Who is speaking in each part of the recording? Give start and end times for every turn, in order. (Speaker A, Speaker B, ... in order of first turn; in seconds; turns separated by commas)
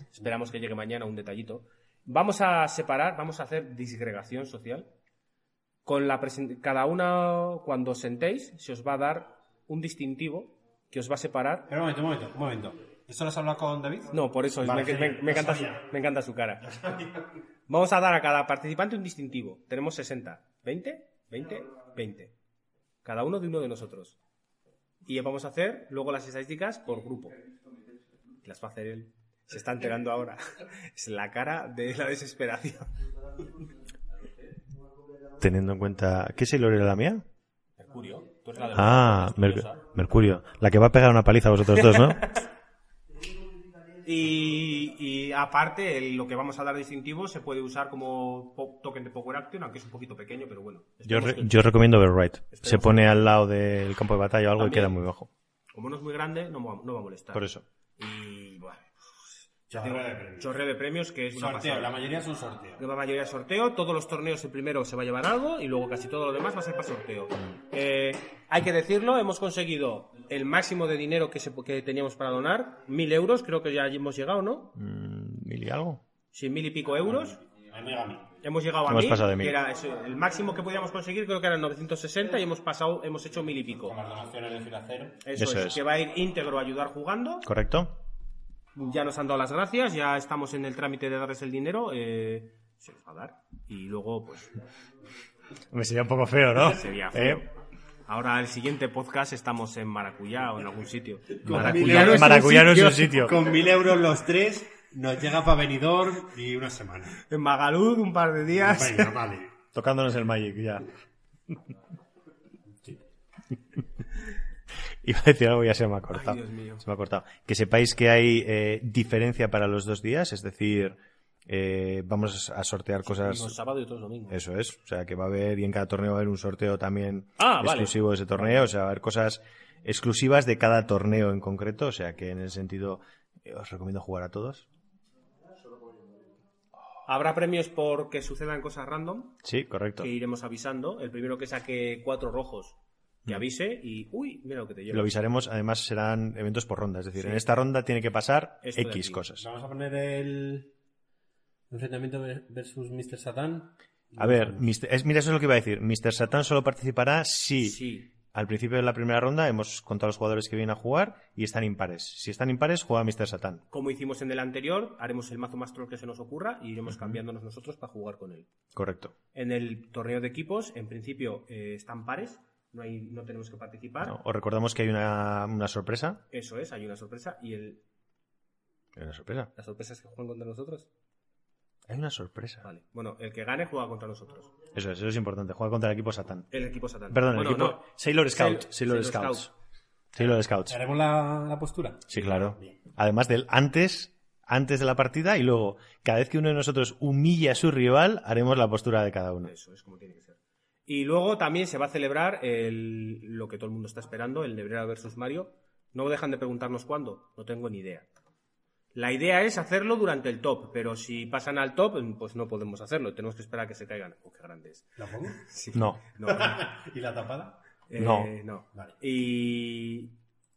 Speaker A: 0.1-4.9, Speaker A: 5.8-11.7, Speaker B: 11.7-15.8, Speaker A: 14.1-16.6, Speaker B: 16.7-17.0, Speaker A: 17.7-22.3, Speaker A: 23.0-24.1, Speaker A: 25.1-27.4, Speaker A: 28.4-32.9, Speaker C: 35.4-37.2, Speaker A: 37.8-39.9, Speaker C: 38.7-42.2, Speaker A: 41.7-42.4, Speaker A: 44.0-51.7, Speaker C: 51.0-55.3, Speaker A: 52.5-53.3, Speaker A: 54.6-54.9, Speaker A: 55.7-57.5, Speaker C: 57.3-57.6, Speaker A: 58.0-62.0, Speaker B: 59.7-60.6, Speaker B: 61.3-62.8, Speaker A: 62.8-74.7, Speaker C: 74.8-76.0, Speaker A: 76.3-77.4, Speaker B: 77.0-78.3, Speaker A: 78.4-84.0, Speaker C: 78.9-79.6, Speaker B: 83.8-85.2, Speaker A: 85.2-87.5, Speaker C: 85.4-85.8, Speaker C: 87.4-88.0, Speaker A: 88.7-94.5, Speaker C: 95.7-97.4, Speaker A: 96.6-97.5, Speaker A: 98.1-103.3, Speaker B: 101.4-107.2, Speaker C: 101.4-103.4, Speaker A: 107.3-109.2, Speaker B: 108.5-109.5, Speaker C: 109.7-110.9, Speaker C: 115.0-123.6, Speaker A: 116.1-116.8, Speaker A: 123.0-124.4, Speaker C: 124.3-134.7, Speaker A: 127.4-128.7, Speaker A: 137.1-139.4, Speaker C: 139.4-140.1, Speaker A: 140.0-145.1, Speaker C: 144.9-149.4, Speaker A: 147.1-147.5, Speaker A: 148.6-149.2, Speaker B: 149.4-150.7, Speaker B: 151.7-154.6, Speaker C: 154.2-163.6, Speaker A: 157.6-158.1, Speaker A: 163.7-168.5, Speaker C: 166.9-167.2, Speaker C: 168.7-169.1, Speaker A: 169.3-174.2, Speaker C: 174.0-176.2, Speaker A: 176.3-177.8, Speaker C: 178.9-179.5, Speaker A: 179.6-180.9, Speaker C: 181.9-182.7, Speaker A: 182.6-184.5, Speaker C: 184.7-186.5, Speaker A: 186.5-189.5, Speaker C: 187.1-189.5, Speaker C: 190.1-190.8, Speaker B: 190.7-192.7, Speaker C: 192.1-199.5, Speaker A: 199.4-208.1, Speaker A: 208.9-216.7, Speaker B: 215.0-215.4, Speaker C: 215.7-216.0, Speaker B: 216.3-217.6, Speaker A: 217.9-220.1, Speaker C: 218.0-218.3